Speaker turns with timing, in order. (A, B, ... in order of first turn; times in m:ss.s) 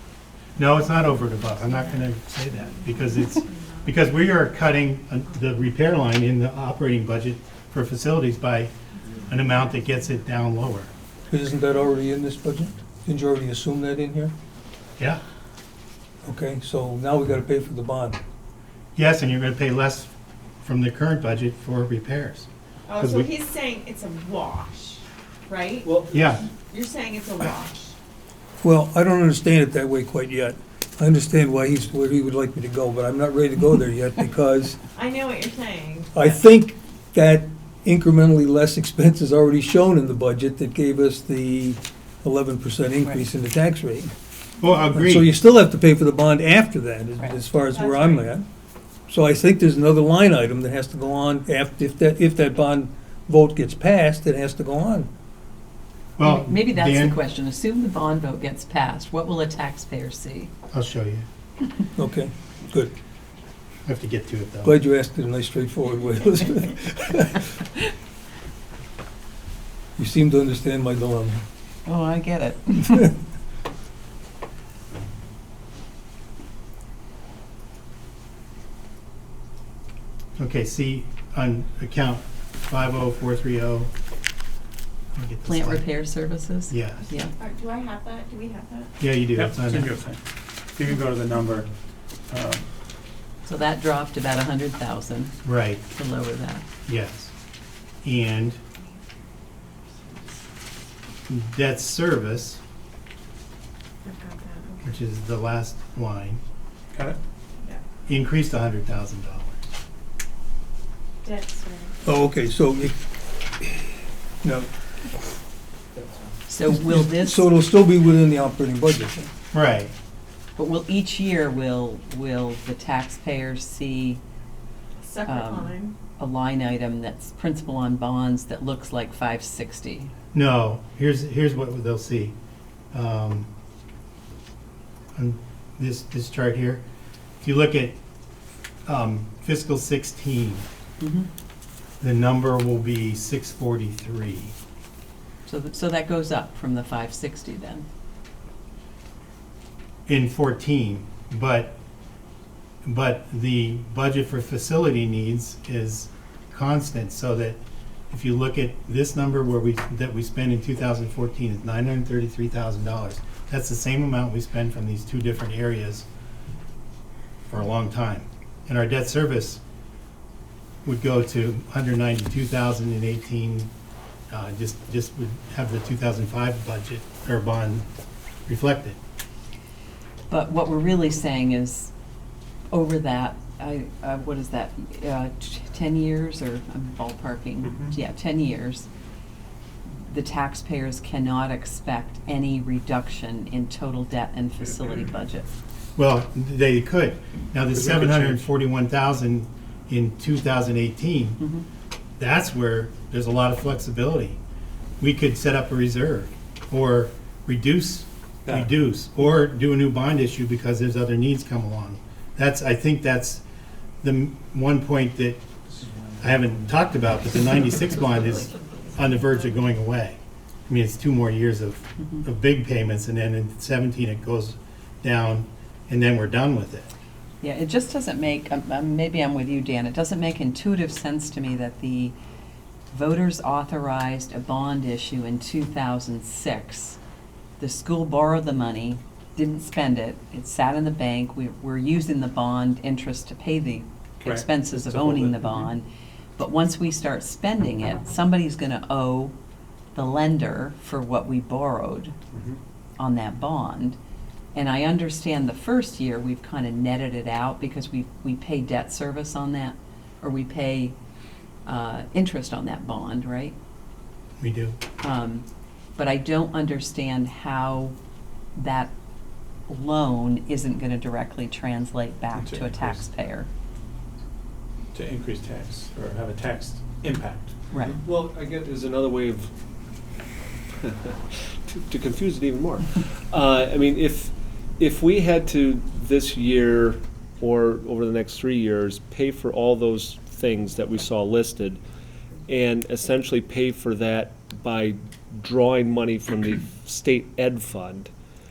0:00.6-0:08.7 A
0:01.6-0:03.9 B
0:09.3-0:10.9 A
0:11.3-0:14.3 C
0:16.2-0:18.2 C
0:18.9-0:20.1 A
0:20.6-0:23.3 A
0:22.9-0:25.9 B
0:26.1-0:26.4 A
0:26.6-0:28.0 B
0:28.6-0:34.8 C
0:34.9-0:36.2 B
0:36.1-0:44.1 C
0:44.6-0:45.3 A
0:44.9-0:48.4 C
0:47.6-0:48.3 B
0:49.1-0:55.1 C
0:56.2-0:57.2 A
0:56.2-1:00.5 D
1:00.7-1:01.2 A
1:02.0-1:02.9 C
1:03.8-1:04.7 A
1:04.6-1:07.5 C
1:10.0-1:11.4 C
1:11.8-1:13.1 D
1:20.4-1:23.9 A
1:25.1-1:25.8 A
1:25.4-1:27.3 D
1:26.7-1:27.1 A
1:27.4-1:28.9 B
1:29.0-1:29.9 A
1:29.3-1:30.2 E
1:30.7-1:31.7 E
1:32.3-1:32.7 E
1:33.4-1:35.3 D
1:35.4-1:35.8 A
1:35.9-1:36.6 D
1:36.8-1:37.3 A
1:38.0-1:38.6 A
1:39.8-1:40.4 B
1:41.3-1:42.6 A
1:44.0-1:44.9 B
1:44.8-1:46.4 A
1:46.9-1:47.2 E
1:48.1-1:49.6 A
1:51.2-1:51.9 B
1:52.0-1:53.0 C
1:54.4-1:54.7 C
1:56.5-1:57.5 D
1:56.7-1:59.3 C
1:59.5-1:59.9 A
2:00.6-2:04.2 D
2:05.0-2:06.0 B
2:05.2-2:10.1 D
2:10.3-2:12.3 A
2:12.9-2:13.5 A
2:15.1-2:16.8 A
2:17.4-2:18.0 A
2:18.8-2:20.7 A
2:21.0-2:21.3 D
2:22.0-2:24.5 A
2:25.5-2:27.8 D
2:30.1-2:31.8 A
2:32.8-2:46.0 A
2:47.5-2:49.6 A
2:50.8-2:53.7 A
2:54.3-2:57.8 A
2:58.5-2:59.0 A
3:00.3-3:01.9 D
3:02.7-3:08.9 D
3:07.6-3:08.0 E
3:09.9-3:15.5 D
3:16.0-3:21.4 A
3:17.7-3:18.5 E
3:21.4-3:21.6 D
3:22.2-3:24.4 A
3:25.0-3:33.4 A
3:28.4-3:28.7 E
3:34.0-3:35.4 A
3:36.2-3:46.9 A
3:47.4-3:52.1 D
3:52.9-3:57.0 D
3:57.6-4:05.8 D
4:04.2-4:05.6 E
4:06.4-4:09.3 D
4:09.9-4:12.1 D
4:12.3-4:12.6 E
4:13.0-4:14.0 D
4:14.5-4:20.9 D
4:21.6-4:23.5 D
4:24.4-4:24.8 A
4:25.0-4:25.4 D
4:26.0-4:27.9 D
4:28.5-4:28.9 D
4:29.7-4:33.5 D
4:32.3-4:33.0 E
4:34.9-4:37.6 E
4:37.7-4:38.0 D
4:38.0-4:39.5 F
4:40.8-4:51.8 F
4:52.5-4:58.1 F